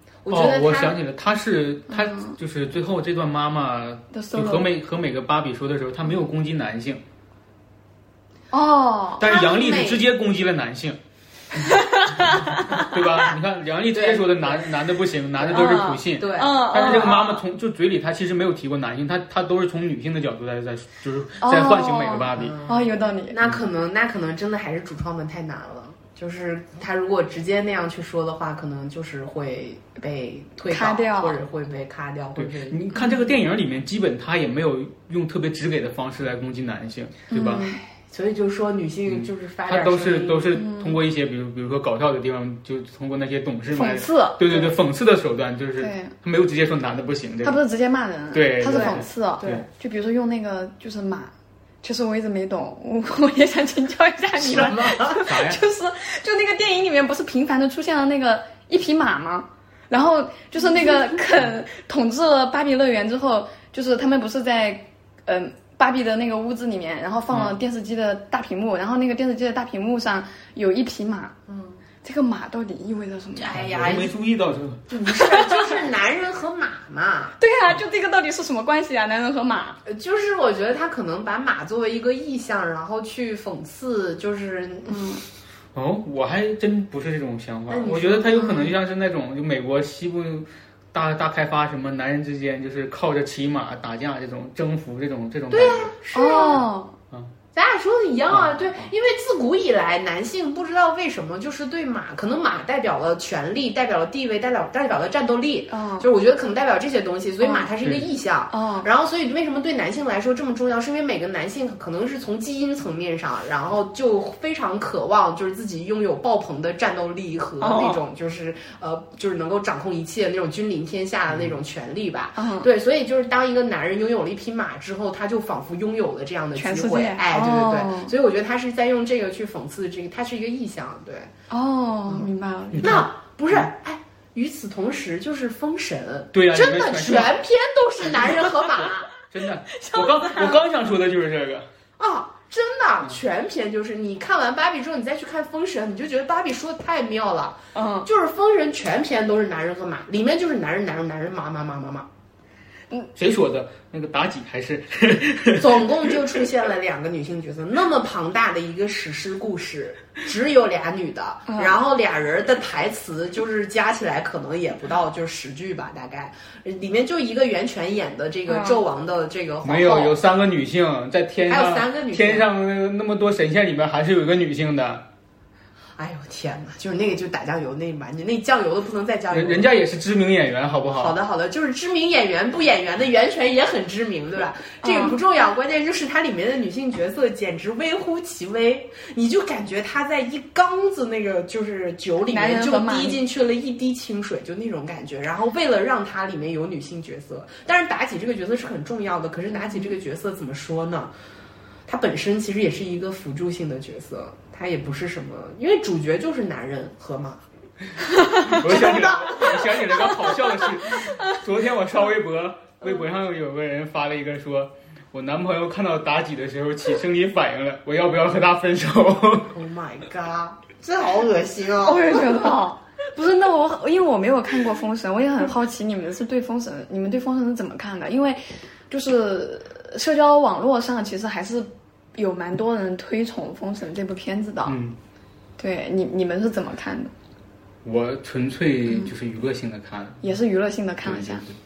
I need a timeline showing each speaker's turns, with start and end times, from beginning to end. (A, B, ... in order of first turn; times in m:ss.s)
0:00.2-0:01.0 A
0:00.3-0:07.0 B
0:01.9-0:02.4 C
0:04.1-0:04.7 C
0:08.5-0:09.3 C
0:09.2-0:11.0 B
0:09.2-0:10.0 A
0:11.6-0:13.0 C
0:12.8-0:22.5 B
0:13.9-0:14.5 A
0:15.4-0:17.2 A
0:15.5-0:17.4 C
0:21.4-0:23.4 C
0:22.3-0:32.8 A
0:30.7-0:31.4 C
0:32.4-0:37.6 B
0:32.9-0:33.3 C
0:37.3-0:37.8 C
0:37.9-0:40.5 A
0:39.1-0:47.6 B
0:40.5-0:41.0 C
0:43.7-0:44.7 C
0:45.8-0:46.1 C
0:47.4-0:51.3 C
0:48.3-0:49.6 B
0:48.7-0:49.6 A
0:51.8-1:11.4 C
0:54.4-0:55.2 A
0:55.2-0:55.6 B
1:07.3-1:07.6 B
1:11.5-1:11.8 A
1:12.0-1:13.6 C
1:13.4-1:14.1 A
1:13.5-1:14.9 B
1:14.9-1:17.4 A
1:15.2-1:15.8 C
1:17.4-1:19.8 C
1:19.8-1:25.0 A
1:24.9-1:25.2 C
1:25.7-1:35.9 B
1:27.7-1:28.5 A
1:28.4-1:28.7 C
1:35.5-1:36.6 A
1:36.1-1:37.0 C
1:37.5-2:11.3 A
1:38.3-1:38.9 B
1:45.7-1:46.1 C
1:47.4-1:47.7 C
1:48.5-1:48.9 C
1:57.6-1:58.0 C
2:02.4-2:02.7 C
2:06.6-2:08.1 C
2:11.5-2:13.0 C
2:12.7-2:13.7 B
2:12.8-2:19.1 A
2:16.3-2:17.4 B
2:19.1-2:21.7 B
2:19.7-2:20.6 C
2:22.0-2:32.1 A
2:27.7-2:28.1 C
2:33.2-2:36.4 B
2:35.6-2:50.2 A
2:41.5-2:41.8 C
2:48.5-2:48.8 C
2:49.6-2:55.0 B
2:51.5-2:52.5 A
2:56.0-2:59.7 A
2:59.3-3:01.1 B
3:00.9-3:21.1 A
3:04.8-3:05.2 C
3:12.3-3:13.2 C
3:19.6-3:19.9 C
3:21.9-3:27.4 A
3:28.1-3:29.0 C
3:28.4-3:39.5 B
3:28.5-3:29.5 A
3:39.5-3:42.5 A
3:41.8-3:54.8 C
3:54.6-3:55.0 B
3:55.6-3:57.1 C
3:57.8-4:00.3 B
4:00.2-4:01.4 C
4:01.0-4:01.6 B